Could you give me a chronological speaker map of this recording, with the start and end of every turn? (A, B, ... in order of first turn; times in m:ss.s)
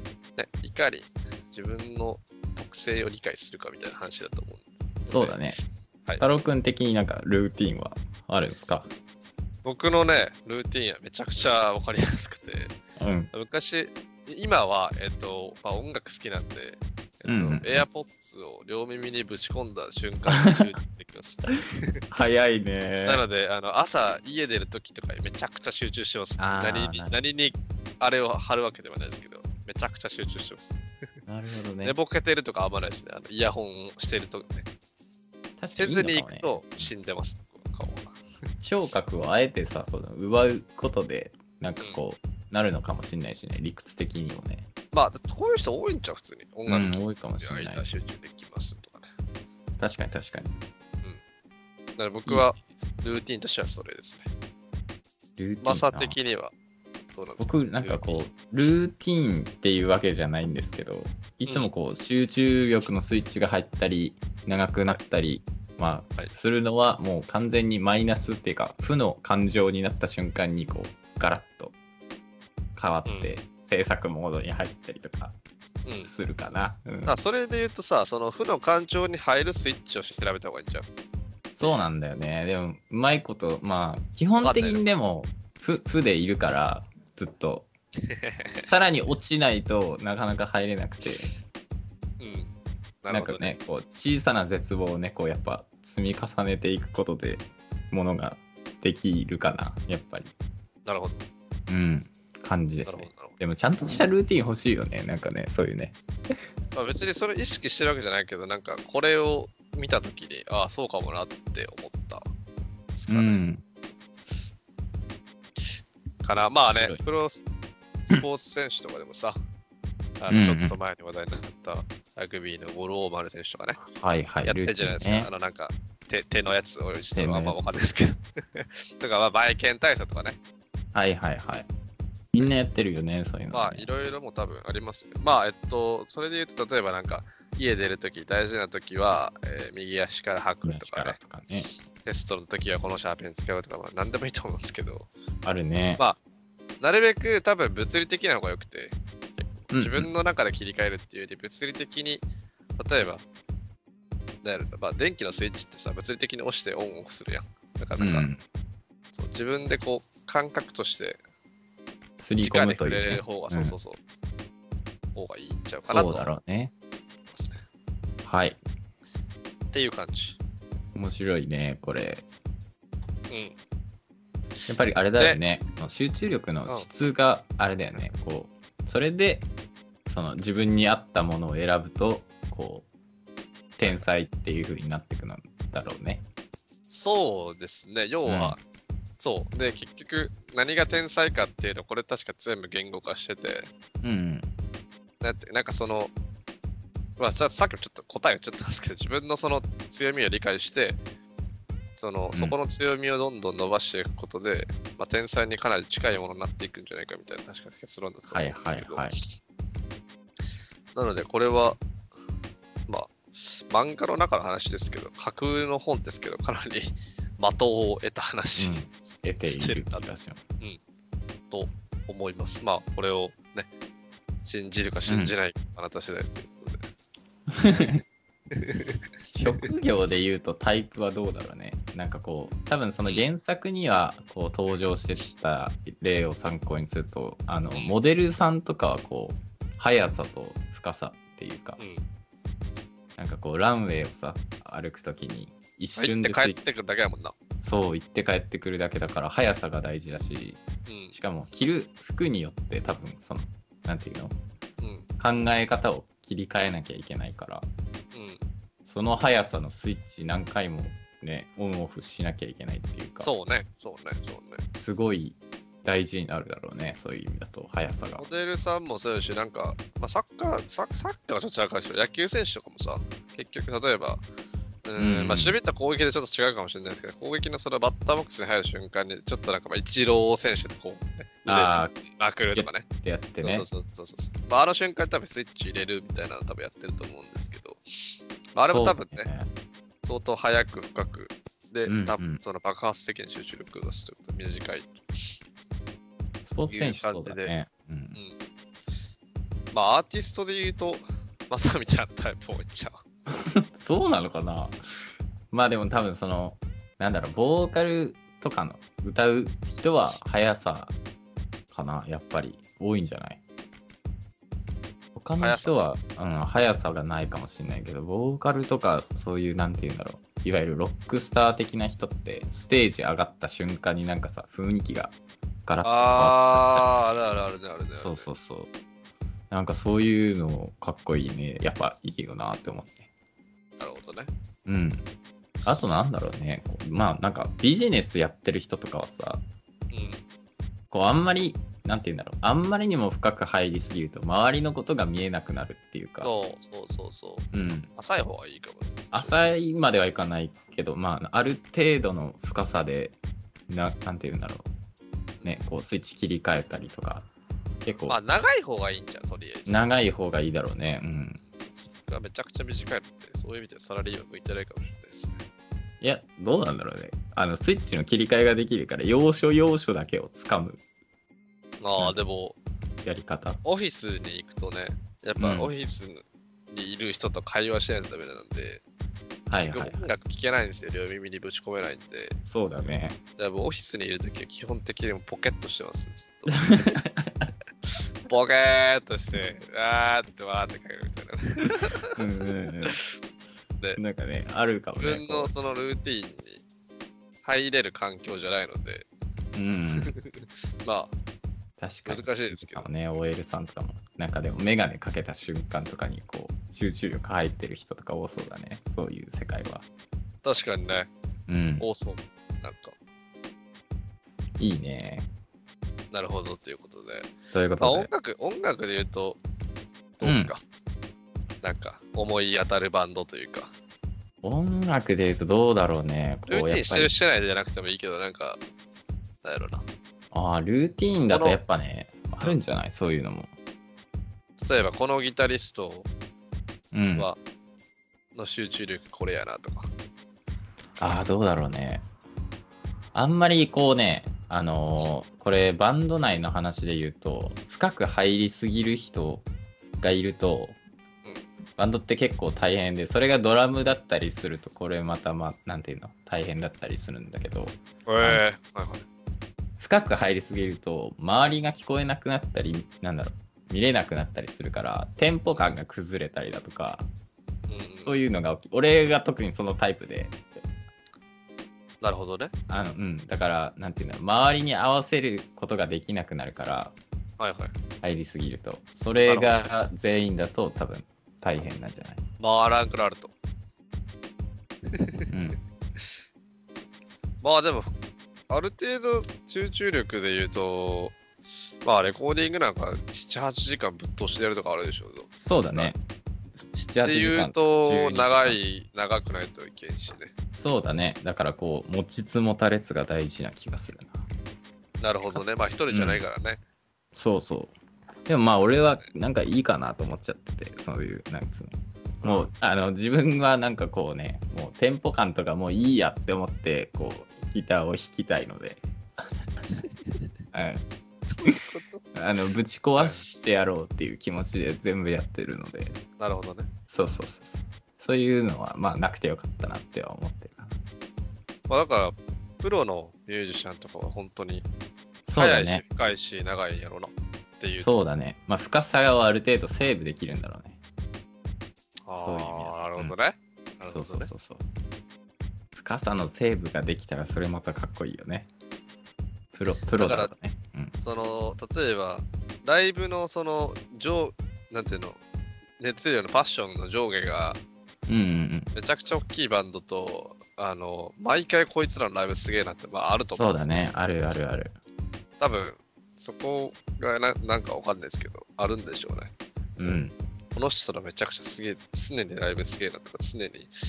0:00.4-0:06.2 A
0:05.1-0:05.6 B
0:06.2-0:08.9 B
0:09.6-0:12.8 A
0:13.0-0:13.3 B
0:13.3-0:22.0 A
0:17.3-0:17.8 B
0:20.3-0:20.6 B
0:22.1-0:23.2 B
0:23.0-0:30.8 A
0:26.4-0:27.2 B
0:31.3-0:32.0 B
0:31.8-0:34.7 A
0:35.6-0:36.9 B
0:35.8-0:38.2 A
0:38.6-0:44.7 B
0:44.9-0:49.1 A
0:46.7-0:47.8 B
0:49.8-0:50.6 B
0:52.0-0:54.3 A
0:55.4-0:56.2 B
0:55.6-0:56.5 A
0:57.2-0:58.2 A
0:57.4-1:11.7 B
1:12.8-1:15.4 B
1:13.1-1:13.3 A
1:15.8-1:16.1 A
1:16.0-1:17.2 B
1:17.1-1:20.9 A
1:21.6-1:27.7 B
1:24.4-1:24.8 A
1:28.1-1:28.7 A
1:28.6-1:31.3 B
1:32.2-1:33.6 A
1:33.1-1:40.3 B
1:40.9-1:41.2 A
1:41.7-1:46.0 B
1:42.8-1:43.4 A
1:46.7-1:52.2 A
1:53.0-1:53.4 A
1:53.1-1:53.6 B
1:56.2-1:57.4 A
1:56.7-1:57.0 B
1:58.0-1:59.4 A
2:00.2-2:03.8 A
2:00.3-2:00.8 B
2:03.8-2:05.3 B
2:04.5-2:10.4 A
2:07.2-2:07.6 B
2:10.9-2:11.7 B
2:12.3-2:13.9 B
2:13.5-2:21.2 A
2:20.6-2:21.7 B
2:22.0-2:25.1 A
2:25.4-2:26.0 B
2:26.8-2:32.2 A
2:29.7-2:30.1 B
2:32.8-2:33.2 A
2:34.4-2:38.3 A
2:38.0-2:38.4 B
2:39.1-2:41.2 A
2:42.2-2:43.8 B
2:42.4-2:44.0 A
2:45.2-2:46.3 A
2:45.8-2:46.7 B
2:47.3-2:47.6 A
2:48.2-2:48.6 B
2:49.7-2:50.4 A
2:50.9-2:52.2 B
2:53.3-2:53.6 A
2:54.7-2:59.5 B
3:00.1-3:02.9 B
3:03.8-3:06.2 B
3:06.9-3:08.6 A
3:08.3-3:08.6 B
3:09.2-3:13.7 A
3:14.0-3:14.5 B
3:15.2-3:16.1 A
3:17.2-3:21.0 A
3:22.0-3:29.1 A
3:28.3-3:29.2 B
3:31.0-3:31.8 A
3:32.9-3:38.9 A
3:38.6-3:40.4 B
3:39.4-3:40.1 A
3:41.5-3:43.7 A
3:44.4-3:46.8 A
3:45.1-3:45.4 B
3:47.5-3:48.0 B
3:48.5-3:49.0 A
3:49.4-4:01.8 B
4:01.8-4:02.0 A
4:03.2-4:06.6 B
4:06.0-4:07.4 A
4:07.6-4:10.6 B
4:10.9-4:11.2 A
4:11.1-4:14.4 B
4:14.8-4:15.1 A
4:15.2-4:17.7 B
4:18.1-4:18.4 A
4:18.8-4:23.3 B
4:23.2-4:24.6 A
4:24.8-4:28.2 B
4:28.2-4:34.2 A
4:34.9-4:42.9 A
4:35.0-4:35.6 B
4:41.5-4:41.9 B
4:42.5-4:43.7 B
4:43.4-4:47.8 A
4:48.5-4:49.3 A
4:48.7-4:49.5 B
4:50.0-4:55.4 A
4:51.9-4:52.4 B
4:56.4-4:58.2 B
4:56.7-4:57.5 A
4:59.7-5:03.0 A
5:03.3-5:04.8 B
5:05.5-5:11.0 B
5:11.7-5:13.4 B
5:15.2-5:25.1 B
5:15.4-5:15.8 A
5:25.7-5:26.9 B
5:25.8-5:28.3 A
5:28.0-5:28.7 B
5:29.5-5:33.1 B
5:33.8-5:34.3 A
5:34.7-5:35.0 B
5:35.6-5:39.4 B
5:39.9-5:40.2 A
5:40.9-5:46.3 B
5:46.2-5:49.4 A
5:47.5-5:47.9 B
5:49.1-5:53.2 B
5:53.7-5:54.7 B
5:55.4-5:57.3 B
5:57.8-5:58.2 B
5:58.1-5:59.8 A
5:59.7-6:01.4 B
6:02.1-6:05.4 A
6:06.0-6:10.8 B
6:11.8-6:12.6 A
6:13.0-6:13.6 B
6:13.6-6:18.8 A
6:15.4-6:15.7 B
6:19.5-6:20.1 B
6:19.6-6:22.4 A
6:22.5-6:23.2 B
6:23.4-6:26.8 A
6:26.5-6:27.5 B
6:27.9-6:32.2 A
6:32.2-6:33.0 B
6:32.8-6:33.1 A
6:34.0-6:35.5 B
6:35.0-6:36.6 A
6:37.4-6:39.1 A
6:39.5-6:40.1 B
6:40.0-6:41.1 A
6:41.8-6:49.8 B
6:42.1-6:42.9 A
6:50.4-6:51.1 A
6:51.5-6:51.9 B
6:51.8-6:53.0 A
6:54.6-6:55.3 B
6:56.1-6:59.4 A
6:57.5-6:58.1 B
7:00.2-7:00.6 A
7:00.2-7:00.5 B
7:01.6-7:03.7 A
7:04.4-7:07.1 B
7:06.5-7:08.6 A
7:09.4-7:09.8 A
7:10.3-7:13.5 B
7:11.3-7:11.6 A
7:14.6-7:16.1 A
7:16.9-7:17.3 B
7:18.4-7:19.9 A
7:21.0-7:22.0 B
7:23.1-7:29.5 B
7:30.0-7:30.8 B
7:31.8-7:38.4 B
7:38.1-7:39.0 A
7:39.8-7:47.1 B
7:47.7-7:48.2 A
7:48.0-7:50.4 B
7:52.0-7:52.5 A
7:52.7-7:57.0 B
7:57.4-7:57.7 A
7:58.0-8:02.2 B
7:59.2-7:59.7 A
8:02.4-8:03.3 A
8:04.9-8:05.3 A
8:05.3-8:05.6 B
8:07.4-8:07.9 A
8:08.5-8:11.2 A
8:11.8-8:15.9 A
8:15.4-8:16.0 B
8:16.7-8:18.6 B
8:17.0-8:20.3 A
8:20.6-8:24.2 B
8:25.0-8:26.6 A
8:25.3-8:26.2 B
8:27.1-8:27.7 B
8:28.3-8:38.8 B
8:32.2-8:32.5 A
8:40.5-8:40.8 B
8:41.3-8:42.0 A
8:42.1-8:46.0 B
8:43.0-8:43.2 A
8:46.2-8:46.7 A
8:46.9-8:50.7 B
8:51.7-8:54.7 A
8:55.3-8:55.8 B
8:55.4-8:57.9 A
8:57.8-9:00.8 B
9:02.1-9:04.3 A
9:02.2-9:03.1 B
9:03.9-9:04.6 B
9:05.8-9:08.5 B
9:09.5-9:10.9 B
9:10.0-9:10.3 A
9:11.0-9:15.2 A
9:15.8-9:17.6 A
9:18.1-9:18.7 B
9:18.7-9:23.7 A
9:23.3-9:24.7 B
9:25.4-9:30.0 A
9:29.8-9:30.2 B
9:30.6-9:33.7 A